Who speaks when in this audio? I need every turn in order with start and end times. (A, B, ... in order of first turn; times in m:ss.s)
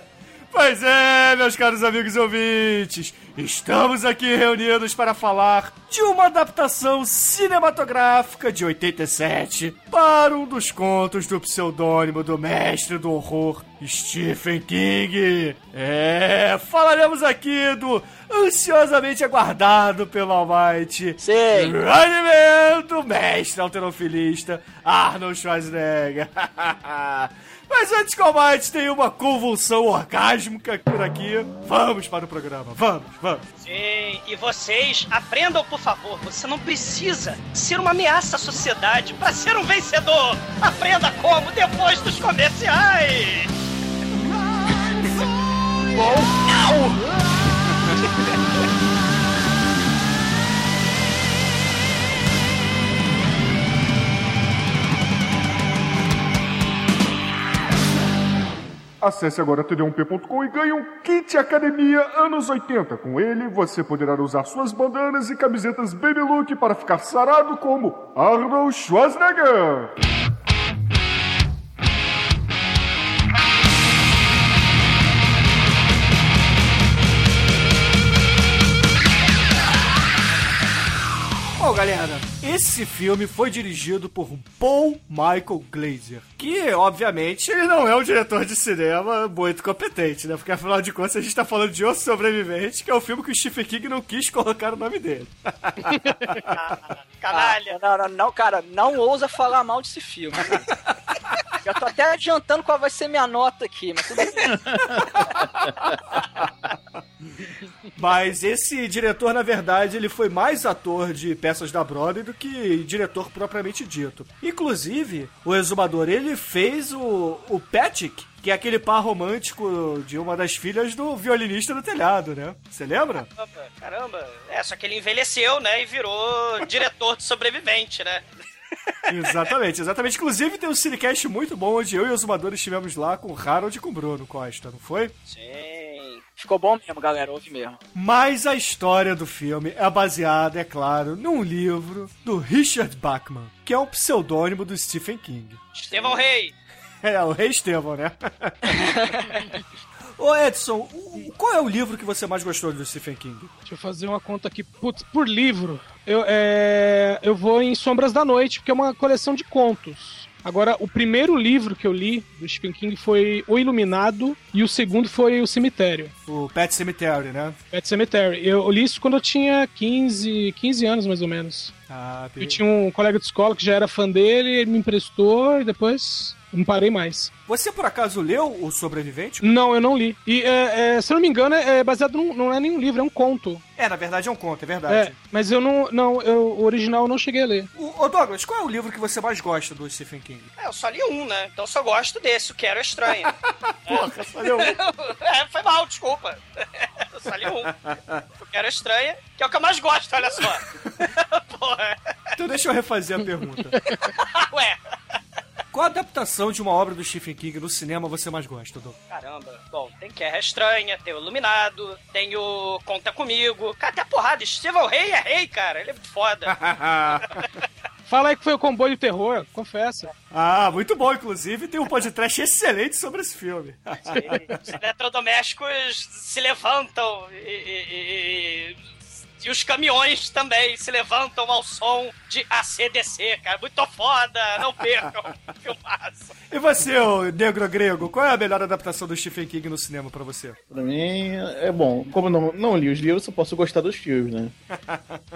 0:00.5-0:33.5 A
0:21.2-0:21.8 B
0:33.6-0:43.5 C
0:46.0-0:46.9 B
0:59.0-1:09.9 D
1:21.6-1:36.6 A
1:36.5-1:37.8 C
1:37.3-1:40.7 B
1:41.6-1:44.6 B
1:45.0-1:45.2 A
1:48.0-2:03.3 A
2:03.4-2:08.3 C
2:09.1-2:15.2 A
2:15.3-2:16.2 C
2:16.4-2:17.8 B
2:17.9-2:25.6 A
2:25.8-2:26.5 C
2:27.0-2:29.0 A
2:30.2-2:33.5 A
2:33.7-2:46.1 E
2:46.3-2:47.6 A
2:47.7-2:51.7 E
2:51.9-2:52.6 A
2:52.4-2:57.3 E
2:57.5-2:59.5 A
2:59.4-3:03.6 E
3:03.8-3:05.2 A
3:04.9-3:07.7 E
3:07.8-3:10.5 A
3:10.6-3:13.4 C
3:13.5-3:14.8 A
3:13.9-3:17.8 C
3:17.8-3:18.2 A
3:18.4-3:22.1 C
3:22.4-3:23.8 A
3:23.9-3:25.2 C
3:25.7-3:29.0 A
3:29.1-3:36.6 C
3:36.6-3:37.2 A
3:37.1-3:37.6 C
3:38.1-3:40.1 E
3:40.3-3:44.6 A
3:44.1-3:48.8 C
3:49.4-3:56.4 C
3:56.5-4:00.6 A
4:00.7-4:04.5 F
4:04.9-4:05.2 A